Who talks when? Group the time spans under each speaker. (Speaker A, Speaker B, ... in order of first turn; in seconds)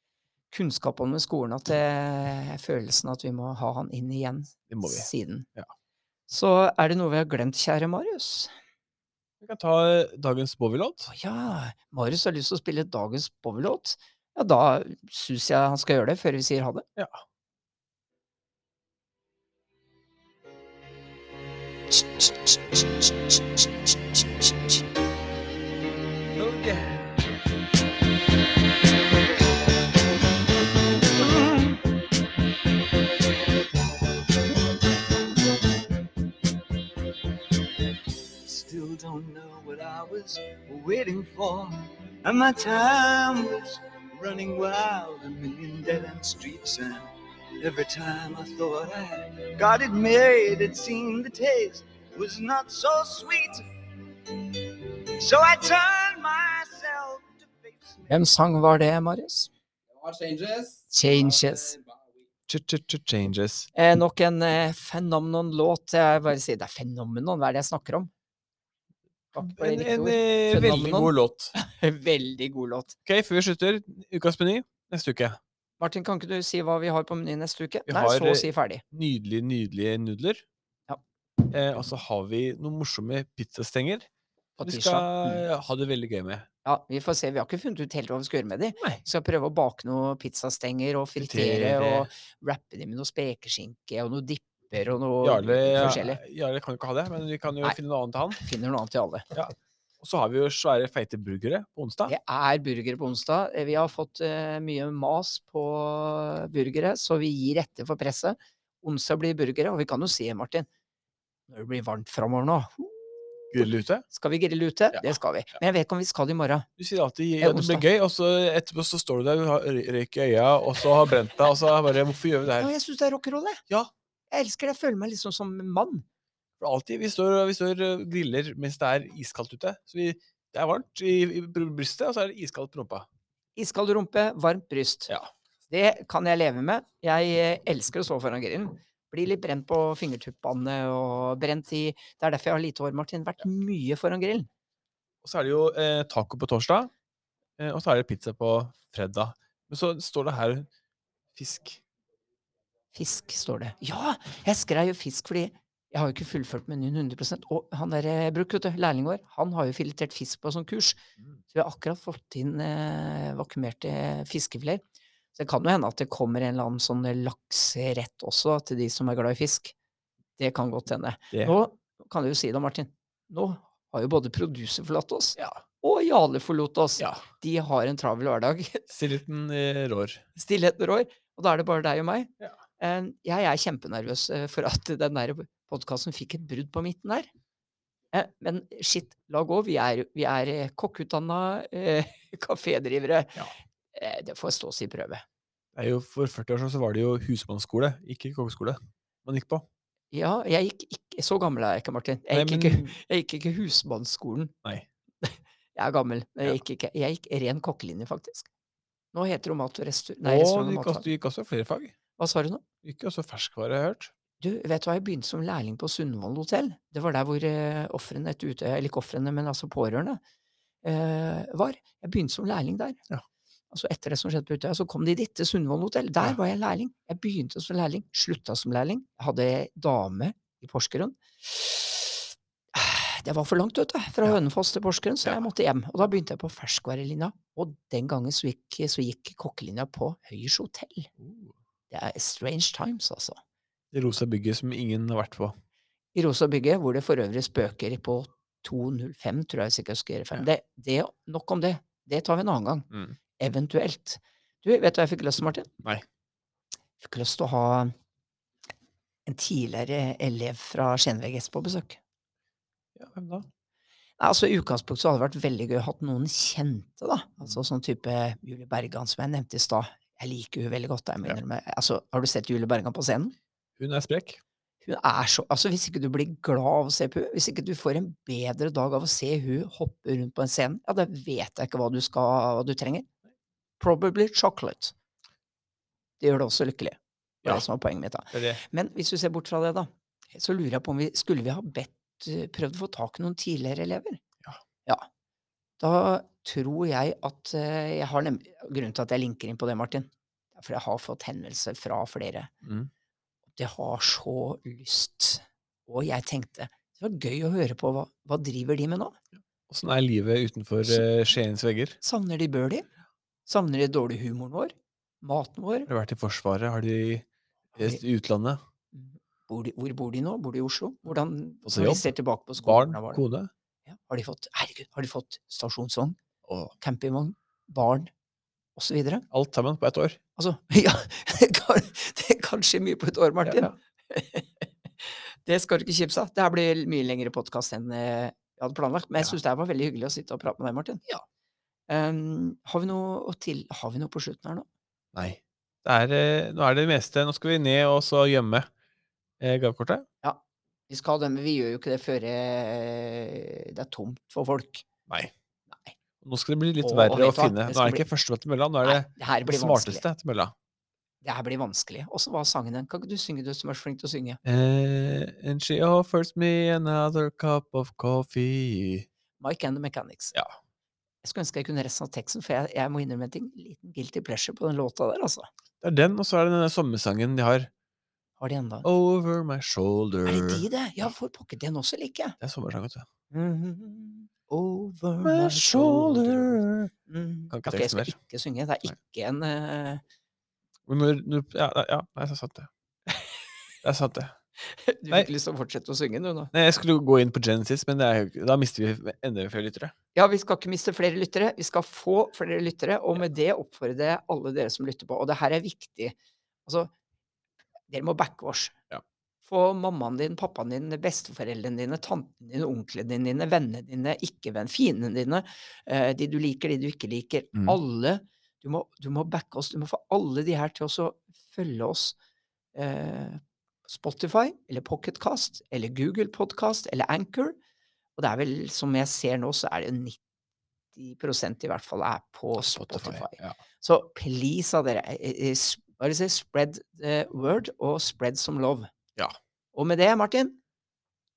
Speaker A: 0.5-5.5, 6.3-8.5, 11.1-16.9, 58.1-59.5, 60.9-61.8, 63.7-68.1, 69.3-73.0, 75.8-78.8, 84.6-85.5, 86.7-96.2, 98.4-99.3, 102.1-110.7, 111.5-116.7, 117.4-117.8, 122.6-123.6, 124.3-126.0, 133.6-135.1, 135.7-144.5, 152.9-161.0, 161.5-164.8, 165.3-169.7, 170.4-178.9, 180.4-187.3, 188.1-195.2, 200.1-204.5, 205.2-208.5, 209.1-211.1, 212.2-212.6, 214.4-220.2, 220.8-223.0, 223.7-241.1, 241.9-243.4, 246.2-252.9, 253.4-255.7, 257.0-257.9, 259.3-262.0, 264.2-273.4, 274.8-283.1, 283.8-284.9, 286.2-294.2, 295.8-302.5, 303.6-309.2, 312.0-312.9, 313.5-315.9, 318.9-323.2, 323.9-326.2, 326.8-328.1, 328.8-329.2, 330.4-341.0, 341.9-344.7, 350.2-354.8, 356.8-358.1, 358.8-360.1, 361.2-364.4, 369.4-370.4, 371.2-375.5, 378.4-378.9, 380.3-382.4, 383.3-390.0, 394.6-396.5, 400.1-406.9, 407.9-408.8, 409.5-422.2, 422.8-427.6, 428.2-430.2, 430.9-438.9, 439.7-440.6
Speaker B: 4.7-5.7, 9.4-11.1, 62.5-63.7, 69.4-71.5, 73.1-75.4, 77.9-80.5, 81.5-84.1, 84.6-86.5, 91.2-92.1, 95.2-98.4, 99.3-102.1, 113.5-114.0, 116.8-122.7, 126.6-133.1, 145.2-146.9, 147.6-150.7, 151.3-151.8, 177.0-177.2, 178.9-180.2, 195.8-199.7, 202.3-203.0, 210.2-211.9, 212.8-214.1, 241.2-241.5, 243.9-245.6, 263.0-263.5, 273.8-274.4, 288.3-288.6, 302.6-302.9, 309.7-312.0, 315.9-318.6, 321.7-323.5, 326.5-326.7, 329.3-330.2, 333.5-333.7, 345.1-348.7, 349.4-350.1, 356.2-360.5, 364.4-369.1, 375.8-377.7, 378.8-380.6, 382.4-383.1, 385.2-386.9, 387.5-388.2, 390.9-392.7, 393.8-394.4, 396.5-399.9, 432.7-433.6
Speaker C: 26.4-27.0, 31.1-31.8, 38.4-47.0, 47.6-53.6, 54.5-58.1, 60.0-60.9